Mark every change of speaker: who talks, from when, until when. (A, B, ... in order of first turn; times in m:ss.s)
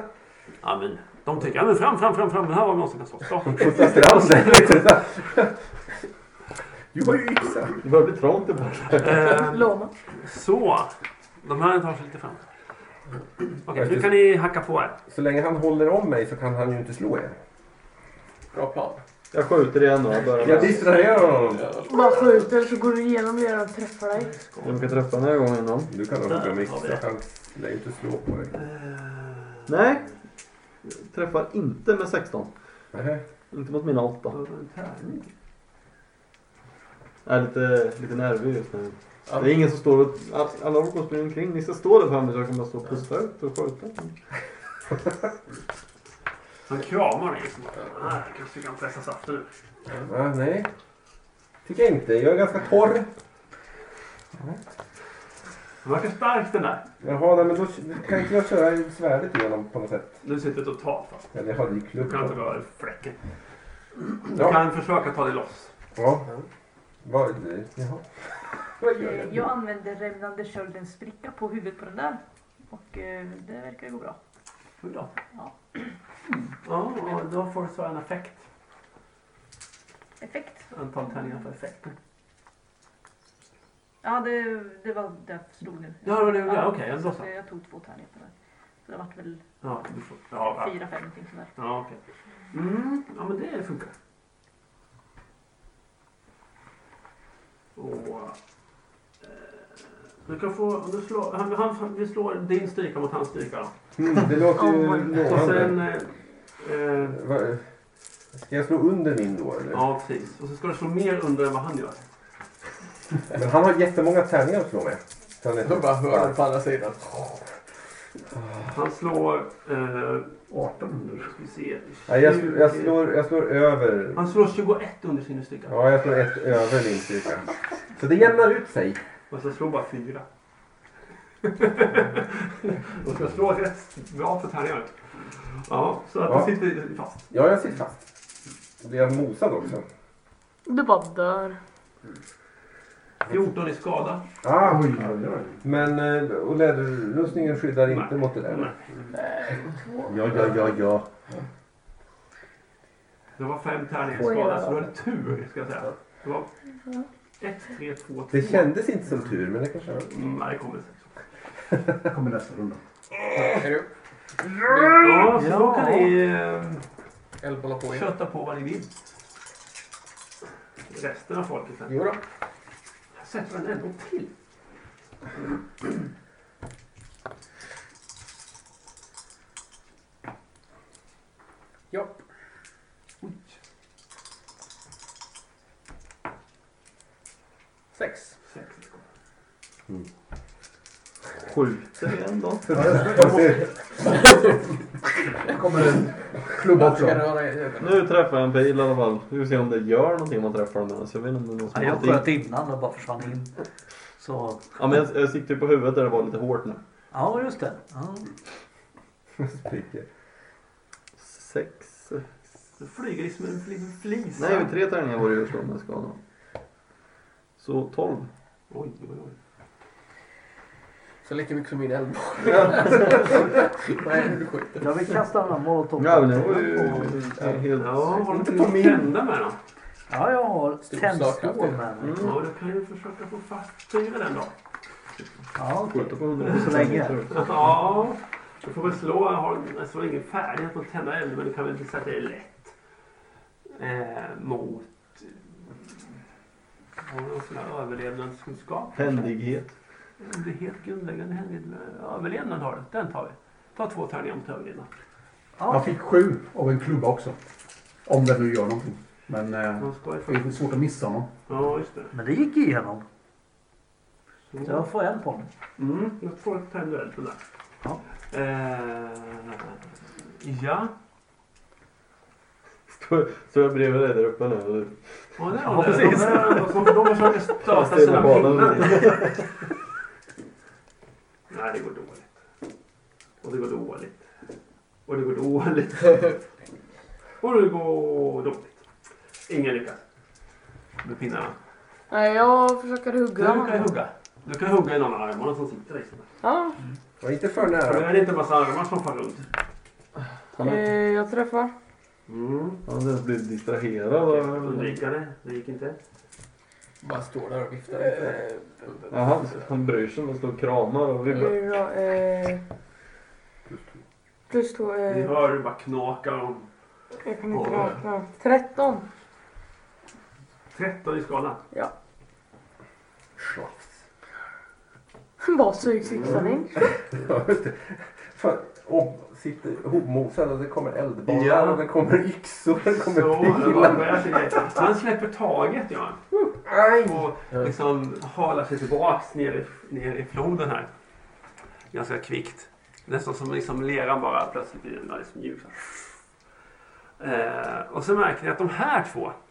0:00.6-0:05.0 A
0:03.4-0:05.6 B
0:06.9-0:07.8 B
0:07.8-0:09.4 C
0:09.0-0:12.5 A
0:09.4-0:09.9 D
0:13.6-0:15.0 A
0:13.7-0:14.2 B
0:15.1-0:17.4 B
0:18.5-0:19.0 E
0:19.3-0:20.9 C
0:20.3-0:22.4 E
0:20.4-0:21.7 B
0:21.9-0:24.4 D
0:24.2-0:25.0 A
0:24.6-0:25.9 C
0:25.9-0:28.6 B
0:26.3-0:27.0 A
0:28.5-0:29.7 A
0:29.7-0:30.1 C
0:30.8-0:32.5 C
0:32.9-0:33.2 B
0:33.5-0:34.4 C
0:34.3-0:35.3 A
0:37.2-0:44.2 C
0:46.7-0:49.5 A
0:50.0-0:50.7 B
0:51.6-0:53.1 B
0:55.8-0:56.8 A
0:57.0-1:00.2 B
1:00.2-1:01.4 A
1:01.3-1:02.4 B
1:02.0-1:03.2 A
1:04.0-1:05.7 A
1:04.4-1:04.6 B
1:06.0-1:06.3 B
1:07.0-1:09.4 B
1:09.0-1:14.2 F
1:14.8-1:15.1 A
1:15.3-1:16.0 F
1:16.6-1:18.5 A
1:20.2-1:21.4 F
1:20.7-1:22.0 A
1:24.0-1:28.3 F
1:26.0-1:27.3 A
1:28.8-1:29.4 F
1:29.6-1:30.8 A
1:30.5-1:31.5 F
1:31.6-1:32.0 A
1:32.5-1:33.9 A
1:37.8-1:38.4 A
1:39.2-1:43.7 A
1:44.0-1:45.8 B
1:44.6-1:45.3 D
1:45.2-1:47.2 A
1:47.1-1:47.7 B
1:48.3-1:49.8 B
1:49.7-1:52.0 A
1:53.3-1:56.4 B
1:55.6-1:57.5 E
1:58.3-1:58.8 B
1:58.7-2:00.4 A
2:00.5-2:01.3 G
2:01.3-2:03.0 A
2:02.1-2:04.3 B
2:04.2-2:05.8 A
2:05.7-2:09.0 B
2:09.3-2:10.2 A
2:11.4-2:17.2 A
2:16.3-2:16.5 B
2:17.3-2:18.1 B
2:18.8-2:19.8 B
2:20.7-2:21.6 D
2:23.2-2:24.2 A
2:24.4-2:25.0 B
2:24.6-2:25.6 G
2:25.6-2:28.7 B
2:27.9-2:28.8 A
2:29.6-2:30.2 D
2:30.1-2:31.1 B
2:33.4-2:36.5 A
2:34.2-2:34.8 D
2:37.4-2:38.7 A
2:38.3-2:40.1 B
2:40.1-2:41.2 A
2:42.0-2:42.8 G
2:43.3-2:43.9 E
2:44.7-2:45.1 E
2:45.0-2:46.8 A
2:45.4-2:46.1 H
2:47.4-2:48.1 E
2:47.9-2:48.9 A
2:50.9-2:52.0 A
2:51.9-2:52.2 E
2:53.2-2:54.3 A
3:01.9-3:02.2 E
3:03.2-3:03.6 A
3:07.9-3:08.4 E
3:08.5-3:09.0 A
3:11.4-3:12.9 C
3:12.7-3:13.7 B
3:12.7-3:13.8 G
3:14.0-3:14.6 E
3:15.4-3:17.3 G
3:16.7-3:18.1 E
3:17.8-3:22.4 C
3:21.7-3:23.5 H
3:24.2-3:24.7 H
3:24.8-3:26.8 C
3:27.1-3:28.4 H
3:29.4-3:30.1 B
3:31.2-3:32.3 C
3:32.8-3:34.7 A
3:34.4-3:36.2 C
3:37.6-3:38.3 C
3:38.7-3:39.4 A
3:41.2-3:45.0 E
3:42.7-3:43.2 C
3:44.8-3:47.2 H
3:46.0-3:48.3 C
3:46.8-3:47.4 E
3:47.8-3:49.6 A
3:48.3-3:49.1 B
3:50.1-3:52.2 H
3:50.8-3:51.9 E
3:52.0-3:52.4 C
3:52.2-3:54.5 A
3:55.6-3:57.2 H
3:55.8-3:57.7 C
3:57.3-4:02.7 A
4:03.8-4:06.2 A
4:07.0-4:09.3 A
4:09.0-4:09.7 C
4:10.2-4:14.9 A
4:15.6-4:15.9 H
4:15.7-4:17.4 G
4:18.0-4:21.3 G
4:19.8-4:20.4 A
4:21.5-4:22.1 A
4:22.1-4:23.0 H
4:24.5-4:24.9 A
4:24.6-4:25.5 H
4:25.8-4:27.4 A
4:28.3-4:29.8 A
4:30.4-4:30.9 A
4:32.9-4:35.4 C
4:35.4-4:39.5 A
4:35.6-4:37.1 H
4:37.6-4:39.5 C
4:41.5-4:42.3 A
4:43.4-4:44.2 A
4:45.1-4:46.4 A
4:47.4-4:48.8 A
4:49.5-4:50.0 A
4:51.0-4:51.6 A
4:52.1-4:53.9 D
4:53.4-4:56.3 A
4:56.4-4:56.8 D
4:57.2-4:58.2 B
4:57.8-4:59.5 A
5:00.5-5:00.9 C
5:00.6-5:01.7 D
5:02.3-5:02.8 A
5:02.9-5:05.0 C
5:04.3-5:06.0 A
5:07.0-5:09.1 E
5:09.1-5:11.6 C
5:11.3-5:12.6 D
5:14.5-5:15.4 D
5:15.1-5:16.7 A
5:17.2-5:19.0 D
5:17.5-5:18.0 A
5:20.7-5:21.6 A
5:23.4-5:24.0 B
5:25.4-5:27.0 D
5:26.9-5:34.4 B
5:31.3-5:31.8 A
5:32.9-5:36.2 A
5:36.6-5:37.3 B
5:37.0-5:40.9 A
5:41.9-5:46.2 A
5:47.2-5:49.4 A